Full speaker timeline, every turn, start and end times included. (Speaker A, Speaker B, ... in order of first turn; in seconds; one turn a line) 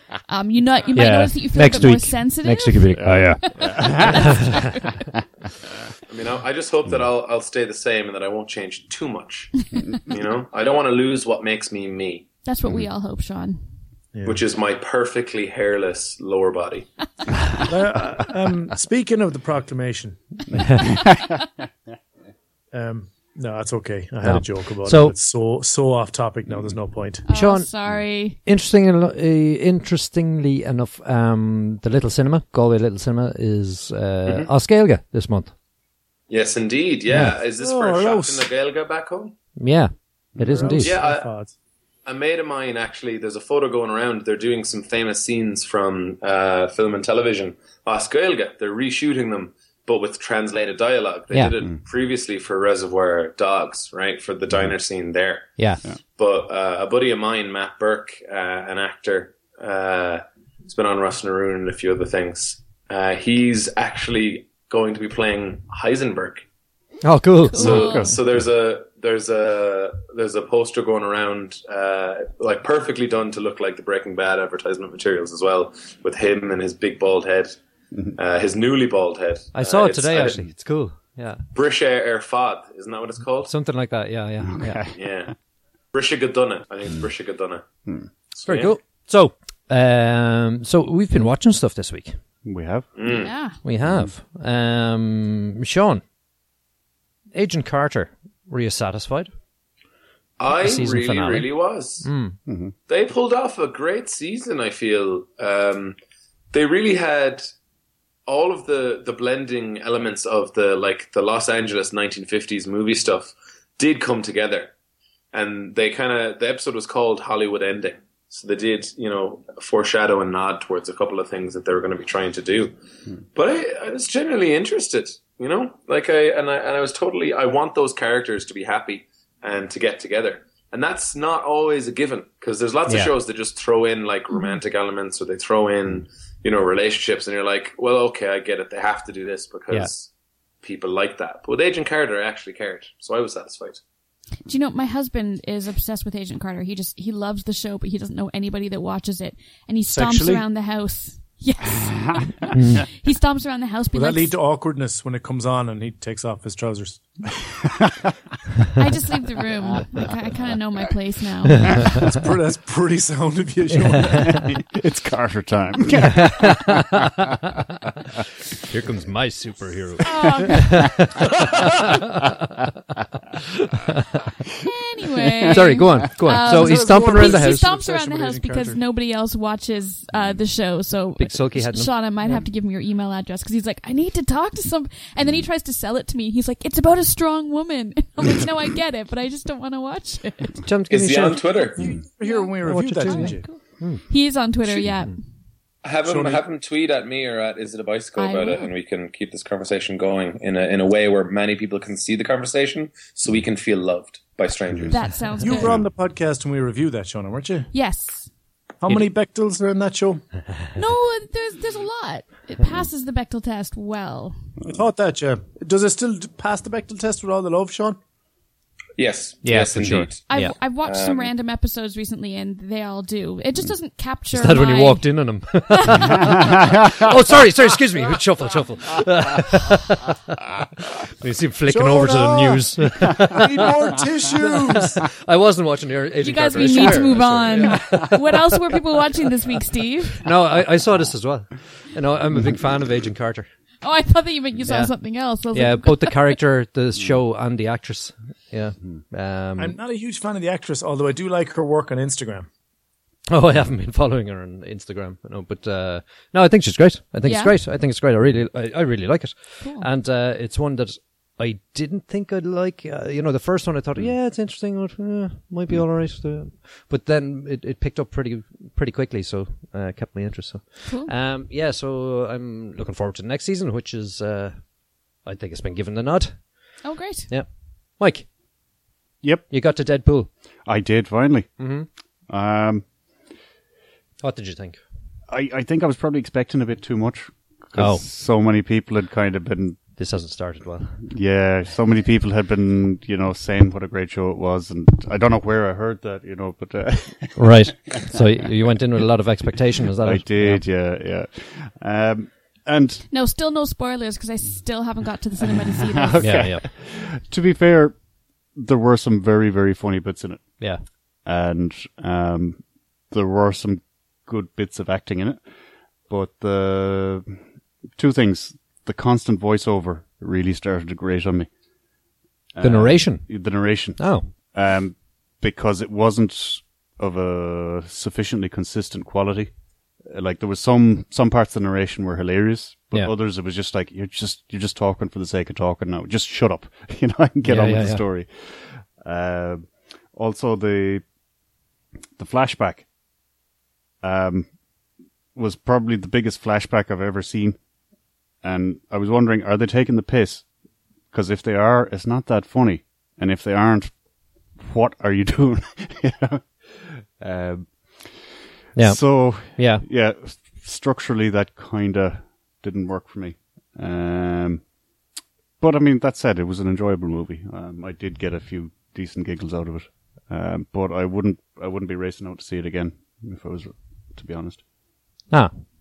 Speaker A: 0.3-5.0
Speaker B: 0.9-3.4
Speaker C: 3.0-4.5
Speaker B: 4.2-4.6
Speaker D: 6.1-12.3
Speaker A: 12.4-13.6
Speaker E: 14.1-14.4
Speaker D: 14.2-16.9
Speaker E: 17.6-20.2
Speaker B: 20.6-20.8
Speaker C: 20.9-21.4
Speaker E: 22.7-27.2
Speaker B: 24.2-25.1
Speaker C: 26.5-26.8
Speaker A: 27.2-28.4
Speaker B: 27.3-27.7
Speaker B: 28.4-35.5
Speaker D: 36.3-39.3
Speaker B: 37.1-37.3
Speaker E: 37.6-38.5
Speaker B: 39.6-41.0
Speaker C: 40.4-40.7
Speaker E: 40.5-41.5
Speaker D: 40.8-41.3
Speaker D: 42.0-55.6
Speaker B: 55.6-55.8
Speaker D: 56.2-66.4
Speaker B: 67.0-67.8
Speaker A: 67.5-68.2
Speaker D: 67.6-77.5
Speaker C: 67.6-68.2
Speaker D: 78.1-80.5
Speaker B: 79.5-81.4
Speaker D: 81.5-83.5
Speaker B: 83.5-84.8
Speaker C: 84.4-85.0
Speaker D: 84.9-85.3
Speaker D: 85.9-87.6
Speaker D: 88.3-88.7
Speaker B: 88.4-92.1
Speaker C: 92.4-92.9
Speaker D: 92.9-93.3
Speaker A: 93.0-93.6
Speaker B: 93.6-96.0
Speaker C: 93.8-94.1
Speaker B: 97.3-99.3
Speaker D: 100.4-102.1
Speaker B: 100.5-101.5
Speaker B: 102.0-102.4
Speaker C: 102.5-102.7
Speaker D: 102.9-106.0
Speaker D: 106.5-107.5
Speaker D: 108.3-114.7
Speaker D: 115.3-122.7
Speaker D: 123.3-140.1
Speaker B: 132.9-133.1
Speaker D: 140.6-143.8
Speaker A: 144.4-154.4
Speaker E: 149.9-150.4
Speaker B: 152.5-152.8
Speaker E: 153.9-157.2
Speaker A: 158.7-162.1
Speaker E: 161.8-164.5
Speaker C: 164.4-166.4
Speaker B: 165.9-167.5
Speaker B: 168.6-172.7
Speaker A: 170.0-171.1
Speaker B: 173.3-174.2
Speaker A: 174.5-190.6
Speaker B: 175.5-177.6
Speaker E: 176.4-178.8
Speaker B: 181.2-182.4
Speaker B: 190.6-191.7
Speaker D: 190.9-191.8
Speaker E: 191.8-193.4
Speaker A: 192.2-195.2
Speaker B: 192.6-194.0
Speaker D: 195.8-205.2
Speaker E: 196.0-196.4
Speaker A: 198.2-198.7
Speaker A: 204.9-205.8
Speaker E: 205.4-207.7
Speaker C: 205.5-205.8
Speaker A: 207.7-208.3
Speaker E: 208.8-210.2
Speaker A: 210.7-214.5
Speaker E: 214.6-218.0
Speaker D: 219.0-220.2
Speaker B: 219.4-220.5
Speaker A: 220.3-225.1
Speaker D: 220.8-221.3
Speaker B: 224.3-238.6
Speaker A: 225.7-226.5
Speaker E: 231.7-235.0
Speaker A: 236.2-240.3
Speaker B: 240.2-243.5
Speaker A: 243.8-246.4
Speaker B: 244.7-244.9
Speaker B: 245.5-249.8
Speaker E: 249.6-252.5
Speaker B: 253.3-278.3
Speaker A: 257.2-257.6
Speaker A: 259.6-259.9
Speaker A: 270.9-271.1
Speaker A: 276.8-277.3
Speaker B: 279.5-280.3
Speaker C: 280.6-281.6
Speaker B: 281.6-281.9
Speaker C: 282.3-282.8
Speaker B: 284.2-284.8
Speaker C: 285.3-289.8
Speaker B: 287.7-288.1
Speaker B: 290.0-291.0
Speaker C: 291.0-297.6
Speaker B: 297.4-300.6
Speaker C: 300.0-303.0
Speaker A: 303.1-306.5
Speaker C: 305.5-308.0
Speaker B: 306.2-306.6
Speaker C: 308.5-310.6
Speaker C: 311.2-315.4
Speaker C: 316.1-317.4
Speaker C: 317.9-321.5
Speaker C: 322.5-341.0
Speaker B: 322.6-324.3
Speaker B: 337.4-338.0
Speaker C: 342.2-342.9
Speaker C: 344.0-344.5
Speaker C: 345.3-347.6
Speaker C: 348.4-350.5
Speaker C: 351.1-354.0
Speaker C: 354.5-364.6
Speaker B: 358.8-359.8
Speaker C: 365.6-374.6
Speaker B: 375.3-375.6